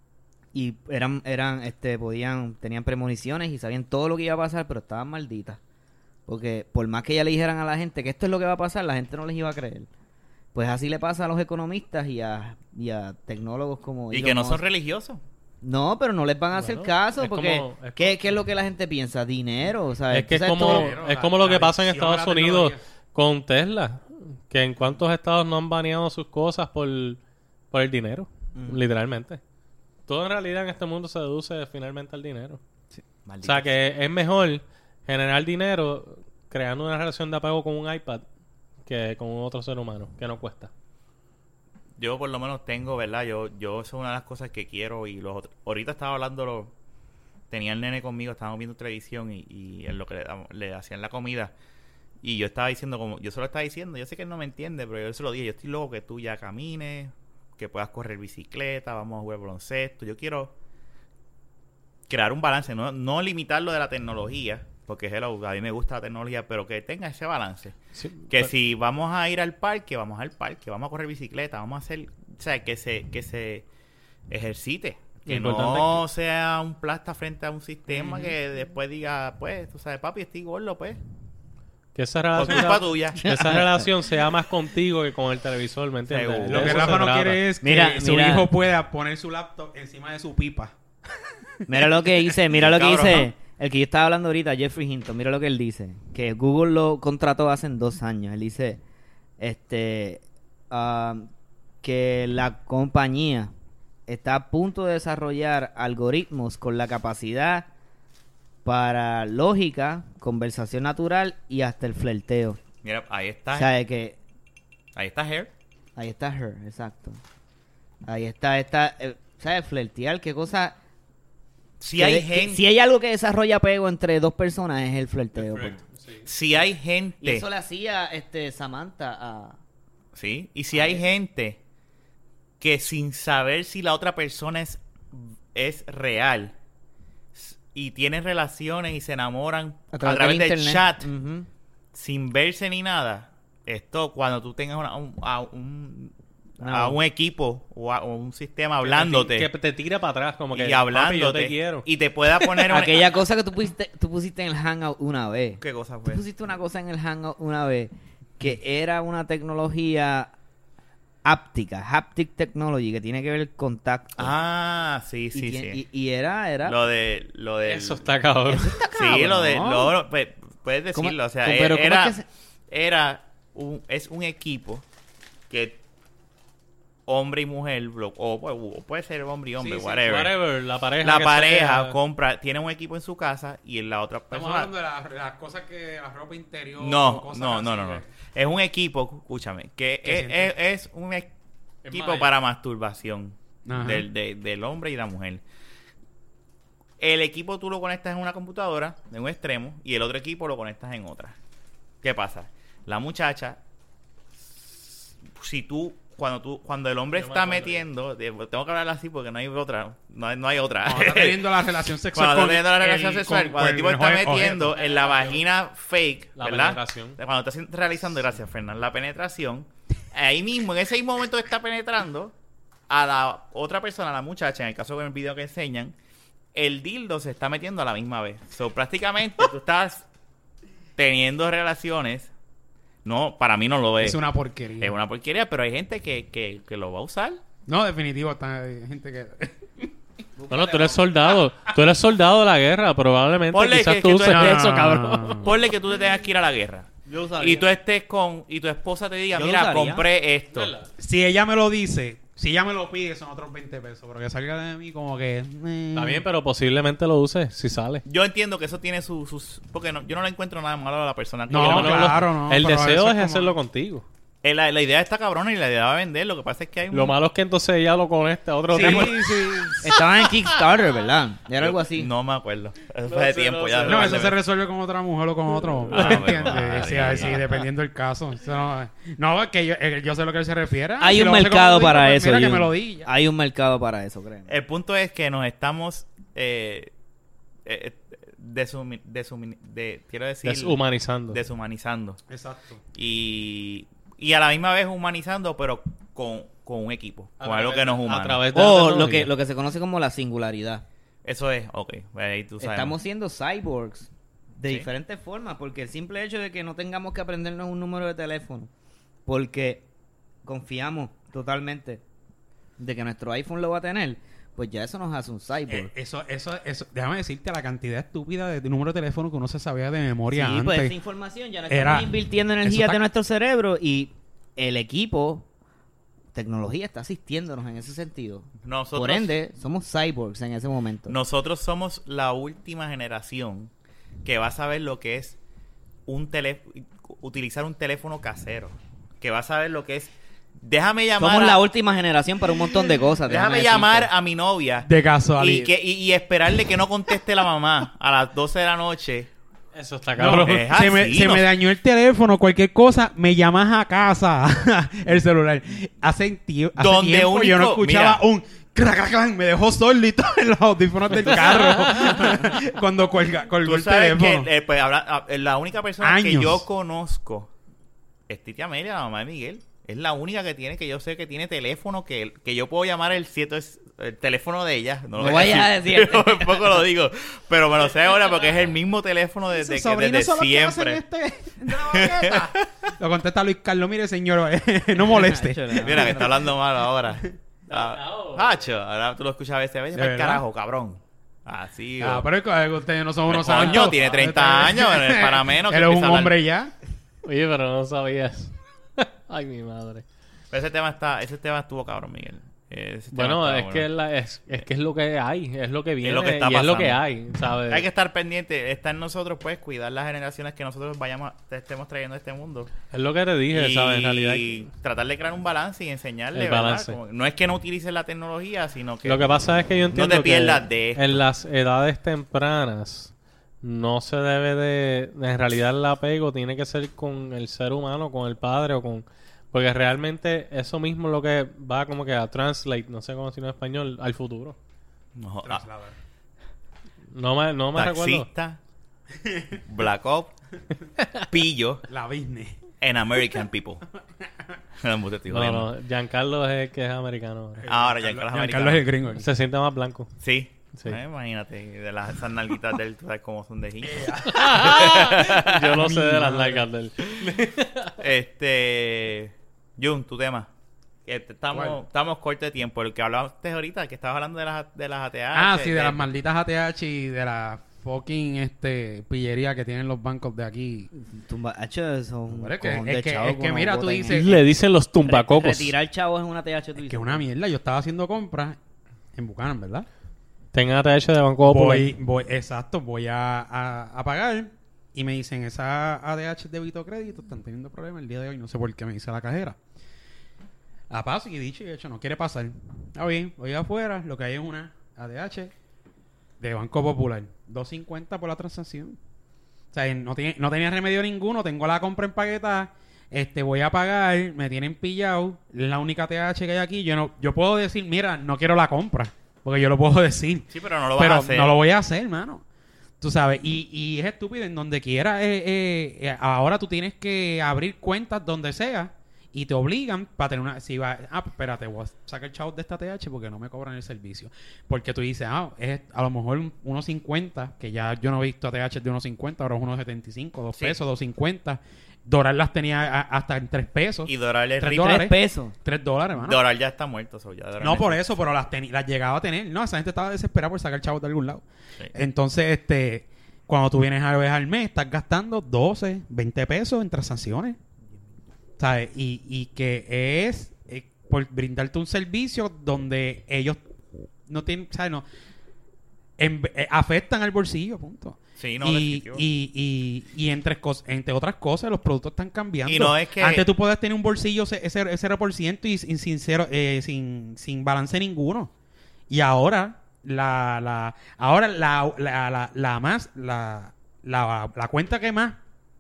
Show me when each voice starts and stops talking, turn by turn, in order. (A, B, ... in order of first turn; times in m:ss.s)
0:00.5-0:05.6 A
0:06.3-0:09.9 A
0:10.5-0:14.6 A
0:14.1-0:15.2 B
0:15.6-0:21.0 A
0:16.5-0:18.3 C
0:20.1-0:27.2 C
0:20.6-0:22.8 D
0:27.7-0:29.4 C
0:28.6-0:28.8 A
0:30.1-0:32.6 C
0:33.3-0:33.8 B
0:33.4-0:38.2 C
0:38.8-0:40.7 C
0:42.0-0:46.7 B
0:47.5-0:51.5 B
0:52.2-1:00.5 B
1:02.1-1:07.8 B
1:07.9-1:08.5 C
1:08.3-1:13.7 B
1:14.3-1:21.0 B
1:15.3-1:16.0 C
1:22.0-1:27.4 C
1:22.3-1:23.2 B
1:23.2-1:23.9 A
1:26.1-1:27.0 B
1:26.5-1:30.7 D
1:27.6-1:28.5 A
1:31.7-1:38.8 A
1:32.5-1:33.3 B
1:39.4-1:41.3 A
1:41.8-1:43.5 A
1:44.1-1:47.7 A
1:48.6-1:52.6 A
1:52.8-1:53.7 B
1:53.5-1:54.2 A
1:55.0-1:55.5 B
1:56.0-1:57.2 A
1:58.0-2:00.8 A
2:01.8-2:02.6 B
2:02.0-2:05.8 A
2:05.4-2:06.3 C
2:06.2-2:07.4 B
2:07.2-2:09.6 A
2:10.2-2:11.6 B
2:10.7-2:11.0 A
2:12.6-2:16.6 B
2:17.3-2:21.1 B
2:19.9-2:21.5 A
2:21.9-2:29.5 B
2:26.6-2:27.0 A
2:28.8-2:31.9 C
2:30.5-2:33.2 B
2:32.6-2:40.3 A
2:35.6-2:36.2 B
2:41.2-2:44.3 A
2:44.2-2:45.8 B
2:45.3-2:46.8 A
2:46.6-2:48.1 B
2:47.6-2:48.8 C
2:48.5-2:50.0 A
2:48.9-2:52.2 B
2:51.0-2:52.3 A
2:52.7-2:54.8 B
2:55.5-2:55.8 B
2:57.1-3:00.4 B
2:59.6-3:02.0 C
3:01.0-3:04.7 B
3:04.3-3:08.1 D
3:06.8-3:11.3 B
3:10.0-3:10.5 D
3:11.8-3:12.3 C
3:11.9-3:15.4 B
3:13.7-3:14.1 D
3:17.0-3:21.4 B
3:22.0-3:23.6 B
3:24.5-3:42.3 B
3:27.1-3:27.9 C
3:30.9-3:34.7 D
3:34.8-3:35.4 C
3:36.4-3:37.2 C
3:42.9-3:45.9 B
3:46.5-3:50.1 B
3:51.0-3:52.3 B
3:53.0-3:54.2 B
3:54.0-3:55.0 D
3:54.8-3:57.4 B
3:57.7-3:59.9 D
4:00.4-4:01.0 A
4:00.5-4:05.5 C
4:03.5-4:04.8 B
4:04.3-4:05.5 D
4:05.4-4:10.7 B
4:07.1-4:07.6 C
4:09.3-4:10.1 A
4:10.5-4:10.9 C
4:11.0-4:16.2 D
4:16.0-4:18.0 C
4:18.1-4:22.2 B
4:21.5-4:23.6 D
4:21.5-4:24.1 C
4:24.4-4:27.2 B
4:26.9-4:29.9 C
4:28.7-4:29.9 D
4:29.8-4:32.1 A
4:31.6-4:34.4 B
4:33.0-4:34.4 C
4:33.8-4:43.1 D
4:35.8-4:37.3 C
4:35.9-4:37.5 B
4:41.0-4:44.5 A
4:44.5-4:46.9 B
4:47.6-4:50.8 B
4:50.4-4:51.4 C
4:51.3-4:52.2 B
4:52.3-4:52.8 D
4:53.0-4:58.5 B
4:57.4-4:59.3 C
4:58.5-5:00.8 A
5:01.2-5:03.0 B
5:02.6-5:08.7 A
5:09.3-5:09.8 A
5:10.4-5:12.0 A
5:12.8-5:15.9 A
5:15.7-5:20.9 D
5:20.3-5:25.5 A
5:21.7-5:23.0 D
5:26.3-5:31.2 A
5:28.6-5:29.3 B
5:31.1-5:33.7 B
5:34.2-5:35.4 B
5:36.1-5:41.6 B
5:41.2-5:44.1 A
5:43.2-5:49.3 B
5:44.8-5:45.7 D
5:49.8-5:50.7 C
5:50.2-5:51.5 B
5:50.2-6:04.5 D
5:56.8-5:58.2 B
6:03.6-6:07.5 B
6:06.0-6:06.6 D
6:08.3-6:21.0 B
6:15.2-6:16.7 A
6:19.5-6:26.4 D
6:21.6-6:22.9 B
6:25.0-6:26.4 A
6:25.8-6:32.3 B
6:27.7-6:28.6 C
6:29.9-6:30.4 D
6:32.0-6:36.7 D
6:33.3-6:36.4 B
6:33.5-6:34.1 C
6:37.2-6:40.1 C
6:40.5-6:43.9 B
6:43.1-6:47.9 C
6:46.0-6:47.0 B
6:47.7-6:52.7 B
6:52.9-6:54.6 C
6:53.5-6:59.2 B
6:56.3-6:57.0 C
6:59.0-7:14.6 C
6:59.9-7:01.2 B
7:15.2-7:15.6 B
7:15.4-7:16.0 D
7:17.1-7:18.3 C
7:17.8-7:18.6 B
7:19.2-7:19.6 D
7:19.6-7:20.4 B
7:21.3-7:21.8 B
7:21.9-7:22.6 D
7:22.8-7:23.8 B
7:24.8-7:25.7 B
7:25.3-7:27.6 C
7:27.6-7:29.3 D
7:27.7-7:28.9 B
7:29.2-7:30.1 C
7:30.2-7:35.8 B
7:33.8-7:34.6 D
7:34.3-7:37.9 C
7:35.7-7:36.6 D
7:37.0-7:37.3 B
7:38.0-7:40.5 B
7:41.1-7:46.1 B
7:45.3-7:50.9 D
7:51.0-7:54.4 A
7:52.3-7:54.4 D
7:54.1-7:55.8 C
7:55.0-7:57.3 A
7:56.9-7:58.6 D
7:59.2-7:59.9 D
8:00.5-8:01.9 C
8:01.4-8:09.6 D
8:10.9-8:15.5 D
8:16.4-8:19.0 D
8:19.7-8:32.4 D
8:30.5-8:31.6 B
8:33.0-8:56.4 D
8:50.5-8:50.8 B
8:54.1-8:55.0 B
8:54.8-8:55.6 A
8:56.2-8:58.0 B
8:57.6-9:07.6 D
9:08.6-9:13.6 D
9:14.3-9:15.0 D
9:16.2-9:28.5 D
9:18.4-9:19.2 B
9:22.6-9:23.5 B
9:29.1-9:35.4 D